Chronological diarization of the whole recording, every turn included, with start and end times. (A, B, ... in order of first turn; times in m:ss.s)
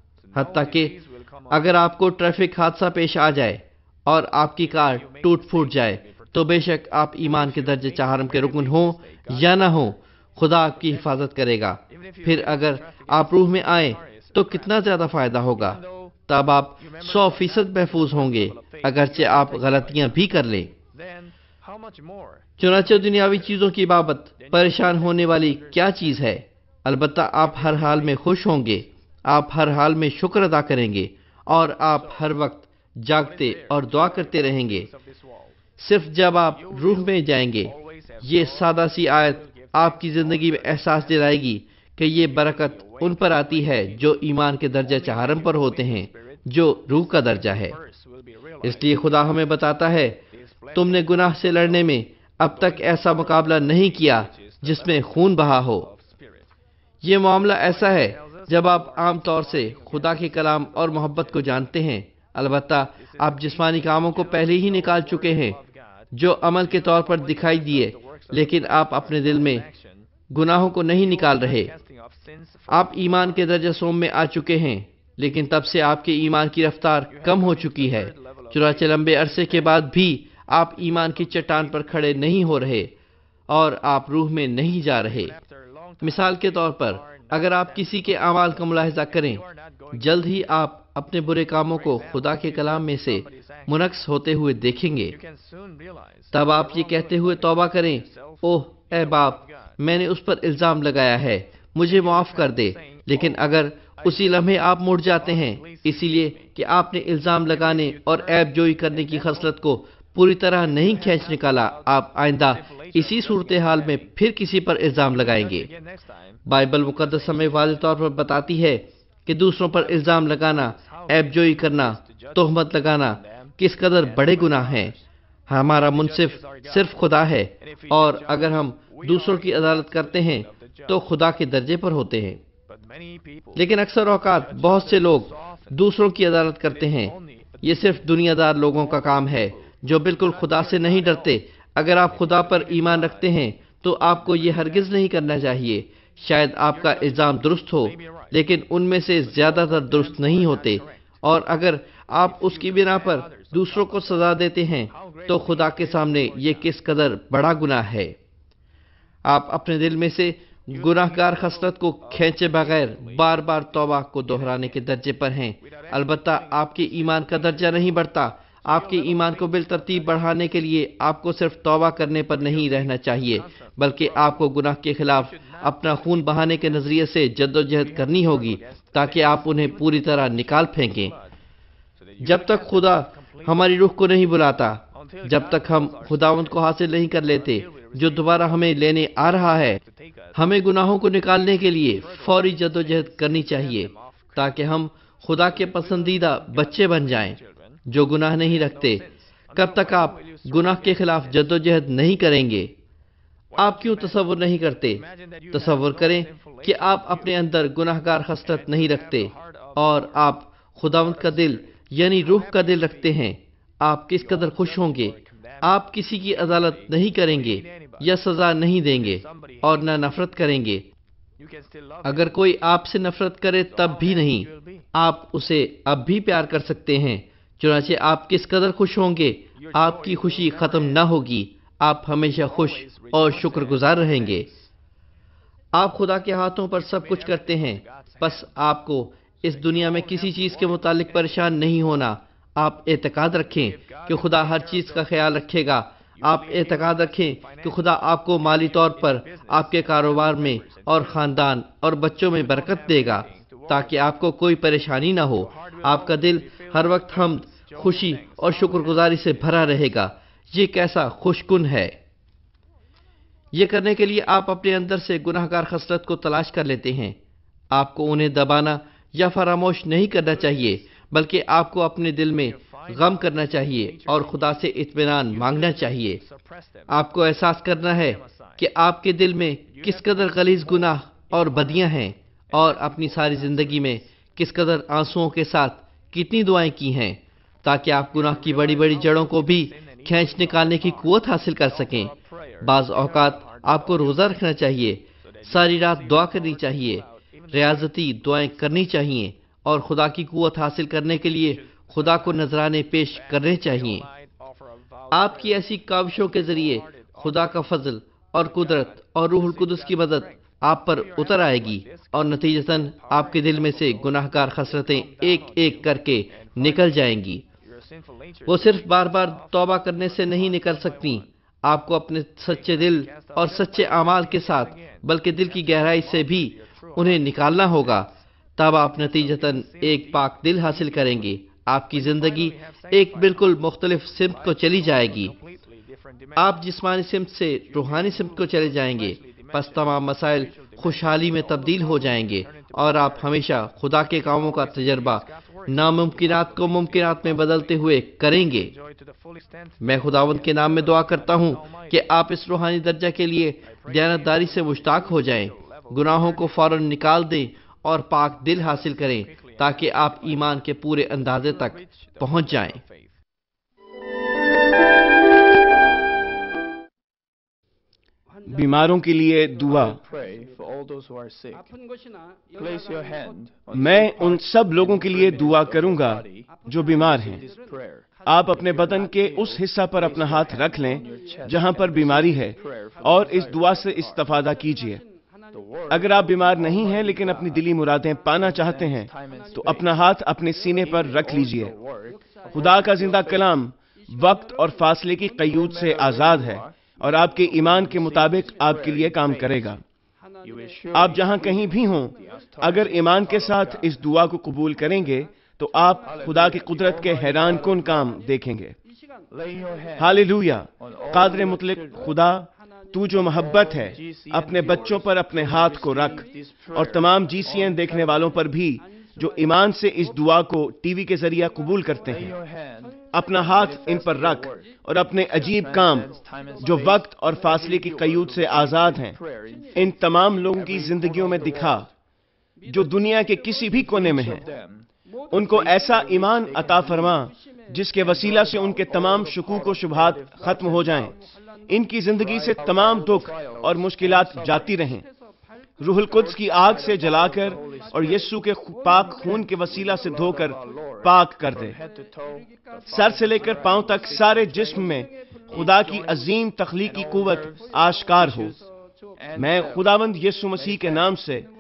0:00.3-0:01.6 A
0:00.3-0:01.0 B
0:01.5-0:20.7 B
0:04.8-0:06.3 A
0:07.2-0:09.6 A
0:12.0-0:14.7 A
0:15.7-0:16.1 A
0:16.8-0:20.2 A
0:20.9-0:22.5 A
0:22.6-0:34.9 B
0:24.4-0:25.4 A
0:27.6-0:27.9 A
0:33.5-0:35.5 A
0:35.8-0:47.8 B
0:36.6-0:37.1 A
0:37.7-0:41.0 A
0:42.3-0:43.9 A
0:44.9-0:46.1 A
0:47.4-0:49.1 A
0:48.6-0:50.2 B
0:50.4-0:51.6 A
0:50.7-0:55.9 B
0:52.6-0:55.3 A
0:55.8-0:56.4 A
0:57.0-1:05.6 B
0:57.7-1:01.0 A
1:03.1-1:05.9 A
1:06.1-1:09.7 B
1:06.6-1:10.0 A
1:10.3-1:11.7 B
1:11.0-1:13.3 A
1:12.7-1:22.9 B
1:17.2-1:19.5 A
1:23.5-1:25.4 B
1:25.3-1:26.3 A
1:26.0-1:35.2 B
1:27.2-1:27.7 A
1:29.0-1:30.0 A
1:31.8-1:33.7 A
1:35.1-1:37.4 A
1:36.3-1:55.7 B
1:38.0-1:38.4 A
1:42.0-1:43.2 A
1:45.2-1:46.5 A
1:47.6-1:48.0 A
1:48.6-1:49.1 A
1:50.9-1:51.7 A
1:52.6-1:54.0 A
1:55.2-1:56.1 A
1:56.5-2:04.9 B
1:57.1-1:57.4 A
2:00.6-2:02.4 A
2:04.1-2:04.9 A
2:05.5-2:12.4 B
2:05.8-2:06.8 A
2:07.8-2:10.9 A
2:12.7-2:13.6 A
2:13.5-2:38.2 B
2:14.4-2:15.7 A
2:17.0-2:17.6 A
2:20.4-2:21.3 A
2:22.2-2:23.1 A
2:29.4-2:31.0 A
2:32.3-2:33.9 A
2:35.1-2:36.7 A
2:39.2-3:01.1 B
2:45.9-2:46.3 A
2:48.8-2:49.8 A
2:53.6-2:54.3 A
2:55.4-2:55.9 A
3:00.8-3:01.2 A
3:02.2-3:03.5 A
3:02.2-3:09.8 B
3:05.1-3:06.5 A
3:07.7-3:08.0 A
3:10.4-3:22.7 B
3:12.0-3:14.4 A
3:16.2-3:17.4 A
3:19.0-3:21.0 A
3:23.6-3:23.9 A
3:23.6-3:40.8 B
3:25.4-3:27.0 A
3:28.5-3:29.8 A
3:34.3-3:35.6 A
3:36.4-3:38.0 A
3:39.1-3:39.8 A
3:41.4-3:42.3 A
3:42.0-3:54.5 B
3:43.8-3:44.8 A
3:49.6-3:51.0 A
3:52.4-3:54.5 A
3:55.7-4:22.0 B
3:57.1-3:58.4 A
3:59.5-4:01.0 A
4:03.9-4:04.9 A
4:06.3-4:07.8 A
4:09.0-4:11.0 A
4:12.5-4:13.9 A
4:15.6-4:16.8 A
4:17.4-4:19.1 A
4:23.5-4:27.2 B
4:27.7-4:36.2 B
4:32.9-4:34.4 A
4:35.4-4:36.3 A
4:36.9-5:04.0 B
4:42.8-4:43.4 A
4:48.1-4:51.0 A
4:51.9-4:54.1 A
4:55.4-4:57.6 A
5:02.0-5:02.3 A
5:03.5-5:05.6 A
5:05.1-5:17.4 B
5:06.4-5:07.0 A
5:09.5-5:10.2 A
5:11.2-5:12.1 A
5:13.1-5:14.2 A
5:14.8-5:15.8 A
5:16.4-5:16.7 A
5:17.9-5:18.7 A
5:18.4-5:35.3 B
5:20.6-5:21.1 A
5:22.6-5:28.0 A
5:29.1-5:30.2 A
5:32.0-5:33.6 A
5:34.4-5:36.4 A
5:36.4-5:48.7 B
5:37.9-5:38.4 A
5:39.0-5:43.3 A
5:44.6-5:47.4 A
5:48.7-5:49.8 A
5:49.8-6:02.8 B
5:51.5-5:51.8 A
5:53.9-5:56.2 A
6:02.2-6:03.1 A
6:08.4-6:10.0 C
6:09.8-6:11.7 A
6:12.5-6:14.4 A
6:13.7-6:17.4 C
6:15.8-6:16.4 A
6:17.2-6:18.0 A
6:18.2-6:25.0 C
6:20.5-6:23.4 A
6:25.6-6:27.1 A
6:25.9-6:31.7 C
6:28.9-6:29.8 A
6:31.1-6:33.2 A
6:32.5-6:39.8 C
6:35.8-6:36.6 A
6:37.7-6:38.7 A
6:40.4-6:41.6 A
6:40.9-6:48.8 C
6:42.4-6:43.3 A
6:46.1-6:47.7 A
6:49.3-6:50.1 A
6:50.0-7:02.3 C
6:50.9-6:51.8 A
6:53.8-6:56.8 A
7:02.1-7:04.6 A
7:03.1-7:09.2 C
7:05.4-7:07.0 A
7:07.8-7:09.8 A
7:09.7-7:11.9 C
7:10.9-7:11.8 A
7:12.6-7:14.4 C
7:14.1-7:15.4 A
7:15.3-7:21.1 C
7:19.9-7:21.1 A
7:21.7-7:25.1 C
7:22.3-7:23.7 A
7:25.8-7:31.8 C
7:26.7-7:28.2 A
7:29.8-7:34.9 A
7:32.8-7:38.6 C
7:35.5-7:36.0 A
7:36.9-7:37.8 A
7:39.3-7:39.7 A
7:39.4-7:41.5 C